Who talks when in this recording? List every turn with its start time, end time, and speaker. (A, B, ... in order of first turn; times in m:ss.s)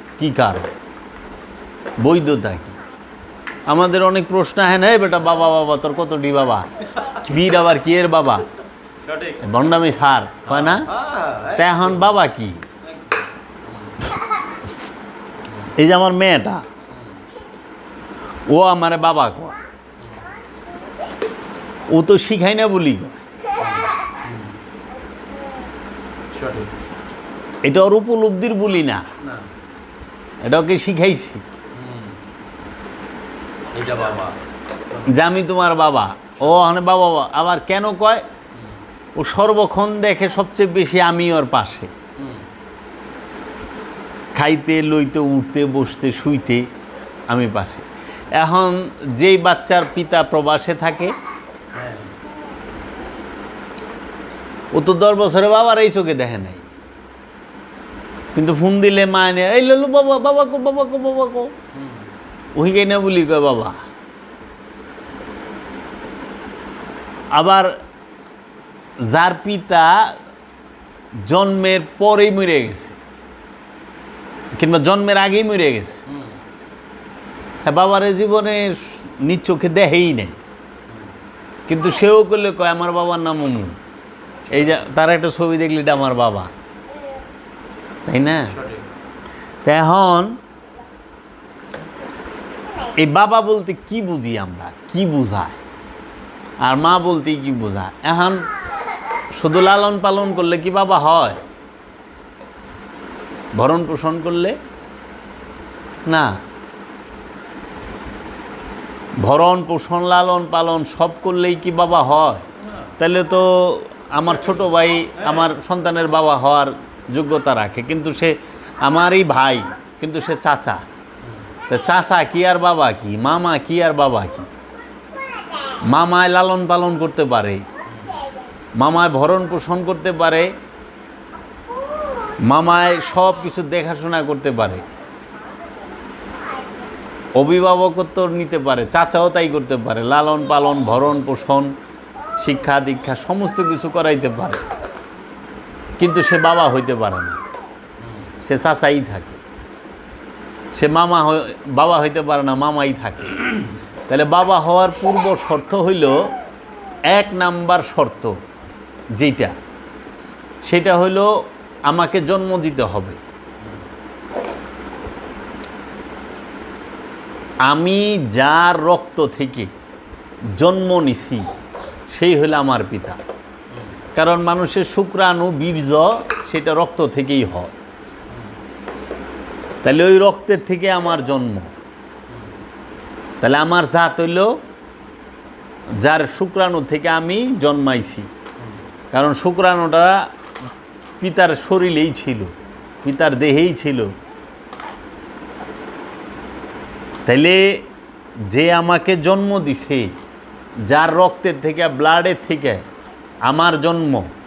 0:00.2-0:00.7 A
0:02.0-0:02.8 A
0:03.7-0:08.5 A
0:09.1-0:09.4 B
0:09.4-0:10.9 A
0:10.5-0:11.6 B
0:11.5-0:12.6 A
0:12.9-0:13.2 B
0:15.7-0:16.6 A
0:18.5-0:19.6 A
0:21.9-0:23.2 A
0:23.6-0:24.5 B
0:26.3-0:26.7 B
0:27.6-0:29.0 A
0:30.4-0:31.4 A
0:31.7-0:32.2 B
0:33.7-0:34.4 B
0:35.0-0:38.2 A
0:39.2-0:41.9 A
0:42.2-0:42.4 B
0:44.3-0:46.6 A
0:47.3-0:51.1 A
0:51.7-0:52.1 B
0:54.7-0:56.6 A
0:58.3-1:01.5 A
1:01.7-1:02.1 B
1:02.6-1:03.8 A
1:07.3-1:07.7 A
1:09.0-1:10.1 A
1:11.2-1:13.0 A
1:14.5-1:16.0 A
1:16.1-1:16.4 B
1:17.6-1:20.4 A
1:21.7-1:23.8 A
1:24.5-1:26.5 A
1:28.0-1:28.6 A
1:28.6-1:28.8 B
1:29.6-1:30.4 A
1:32.9-1:35.6 A
1:36.6-1:38.4 A
1:39.3-1:41.4 A
1:43.6-1:44.6 A
1:46.0-1:46.4 A
1:49.2-1:52.4 A
1:53.0-2:00.8 A
2:01.7-2:04.5 A
2:05.9-2:07.6 A
2:07.9-2:08.2 B
2:08.8-2:10.5 A
2:12.4-2:14.8 A
2:17.4-2:21.7 A
2:22.4-2:24.6 A
2:26.0-2:27.4 A
2:28.4-2:29.4 A
2:30.7-2:36.3 A
2:37.1-2:38.4 A
2:39.1-2:39.5 A
2:40.6-2:41.3 A
2:41.9-2:43.2 A
2:47.7-2:49.7 A
2:50.6-2:51.4 A
2:52.1-2:53.2 A
2:53.7-2:54.0 B
2:54.1-2:57.7 A
2:59.8-3:01.7 A
3:03.4-3:04.6 A
3:06.0-3:08.3 A
3:09.1-3:10.2 A
3:11.2-3:14.1 A
3:17.2-3:17.8 A
3:18.5-3:20.1 A
3:20.9-3:22.8 A
3:23.4-3:24.3 A